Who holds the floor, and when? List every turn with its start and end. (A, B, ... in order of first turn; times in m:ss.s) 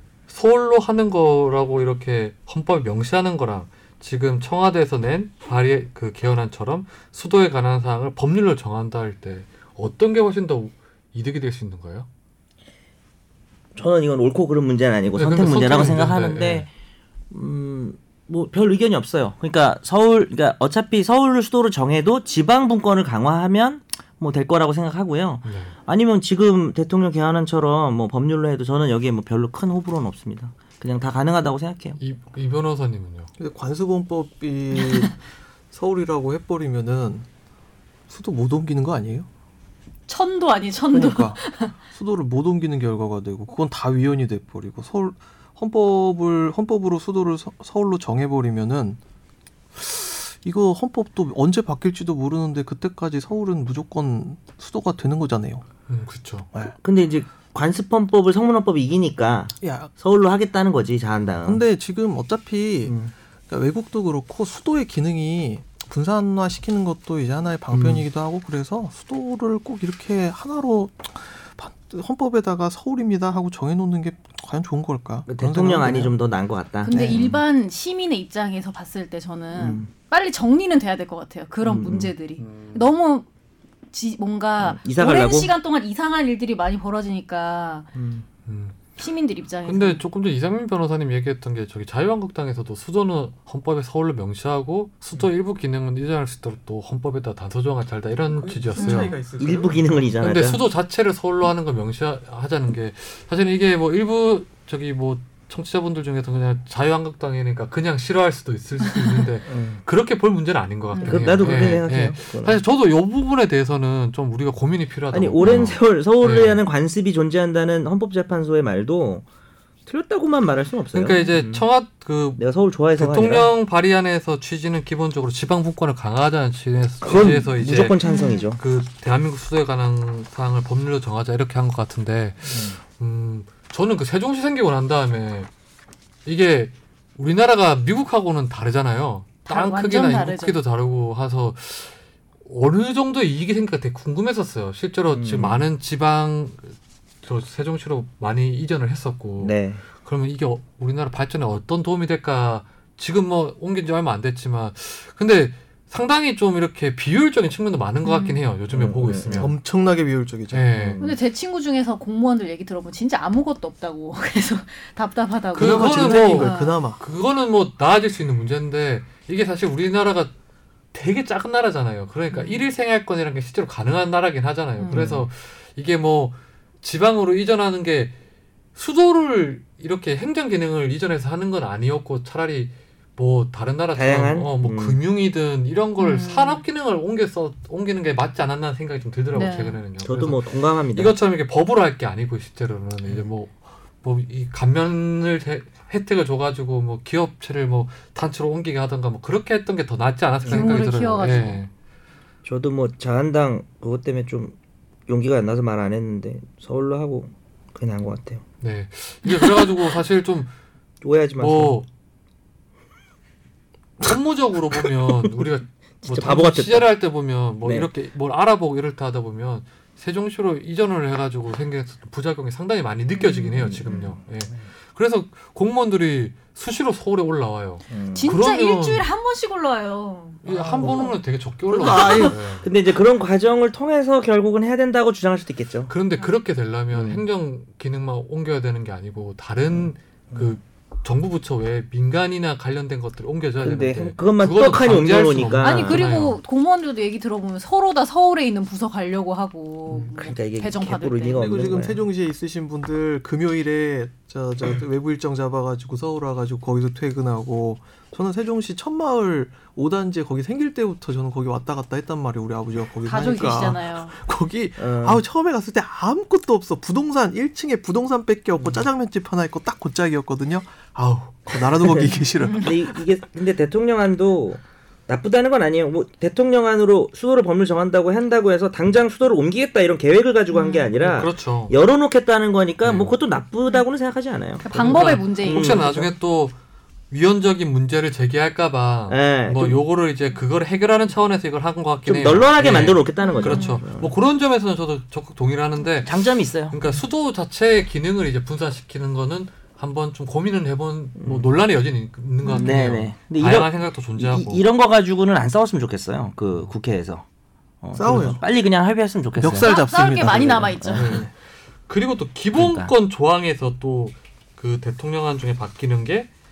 0:00.3-0:12.1 A
0:13.7-0:16.7 B
0:15.1-0:16.6 A
0:17.3-0:32.0 B
0:25.4-0:25.7 A
0:32.0-0:33.3 A
0:33.4-0:35.2 C
0:35.7-0:37.2 C
0:38.1-0:39.3 C
0:40.1-0:41.7 D
0:40.9-0:49.0 C
0:49.8-0:55.6 C
0:55.9-0:56.5 A
0:56.7-1:01.6 B
0:59.6-0:59.9 C
1:01.4-1:02.9 C
1:02.8-1:03.1 B
1:03.5-1:16.1 C
1:07.7-1:08.0 B
1:15.3-1:17.4 B
1:16.8-1:23.3 D
1:16.9-1:17.3 C
1:19.6-1:19.9 B
1:21.6-1:22.1 B
1:22.4-1:22.9 A
1:23.9-1:27.9 D
1:24.6-1:25.5 B
1:27.9-1:28.2 B
1:28.4-1:28.8 A
1:29.0-1:30.0 D
1:29.6-1:39.1 A
1:38.3-1:40.1 C
1:38.8-1:39.1 D
1:39.4-1:40.6 B
1:40.2-1:56.6 A
1:48.8-1:49.2 D
1:49.5-1:49.8 B
1:50.9-1:51.3 D
1:51.0-1:52.6 B
1:55.1-1:59.2 B
1:59.8-2:01.6 B
2:00.9-2:02.4 A
2:02.4-2:03.5 B
2:02.9-2:08.0 A
2:07.0-2:08.6 B
2:08.0-2:08.4 D
2:08.6-2:15.5 A
2:12.5-2:12.8 B
2:16.2-2:39.5 A
2:19.5-2:20.6 D
2:25.1-2:25.6 B
2:29.4-2:29.8 B
2:38.0-2:38.4 D
2:38.7-2:39.5 B
2:39.3-2:41.0 C
2:40.5-2:41.0 A
2:40.8-2:41.1 B
2:41.0-2:46.8 D
2:45.5-2:50.3 A
2:45.6-2:47.0 C
2:50.9-2:58.1 A
2:52.3-2:52.6 D
2:54.8-2:55.1 D
2:54.9-2:55.2 B
2:58.7-3:21.7 A
3:03.9-3:05.0 B
3:06.0-3:06.6 D
3:09.3-3:09.8 D
3:10.0-3:11.1 B
3:20.4-3:20.8 B
3:20.4-3:21.6 D
3:22.4-3:24.6 B
3:25.1-3:28.4 B
3:28.6-3:30.5 A
3:31.0-3:31.8 B
3:31.4-3:31.9 A
3:34.0-3:49.0 A
3:36.0-3:36.9 B
3:37.6-3:37.9 B
3:43.2-3:44.2 D
3:43.6-3:44.6 B
3:47.9-3:48.4 B
3:48.1-3:51.1 D
3:50.4-3:52.7 A
3:50.5-3:51.0 C
3:51.7-3:55.9 B
3:51.8-3:52.4 C
3:55.9-4:06.4 A
3:56.9-3:57.2 B
3:59.7-4:00.6 B
4:03.6-4:06.0 B
4:05.6-4:11.7 D
4:09.9-4:12.0 B
4:11.4-4:33.0 C
4:23.0-4:24.1 D
4:24.8-4:25.2 B
4:28.6-4:28.8 B
4:32.6-4:46.1 B
4:40.5-4:40.9 D
4:41.0-4:41.7 A
4:42.8-4:43.1 A
4:44.6-4:46.0 D
4:44.7-4:46.5 A
4:47.1-5:04.6 A
4:49.1-4:49.8 B
4:52.0-4:54.1 B
4:53.2-4:53.8 D
4:56.0-4:56.8 B
5:01.2-5:01.5 B
5:02.4-5:02.8 D
5:02.5-5:07.2 B
5:07.8-5:09.7 B
5:07.9-5:08.4 C
5:09.4-5:11.3 C
5:09.6-5:11.2 D
5:10.3-5:11.1 B
5:11.0-5:11.3 A
5:11.9-5:16.3 A
5:12.6-5:12.9 B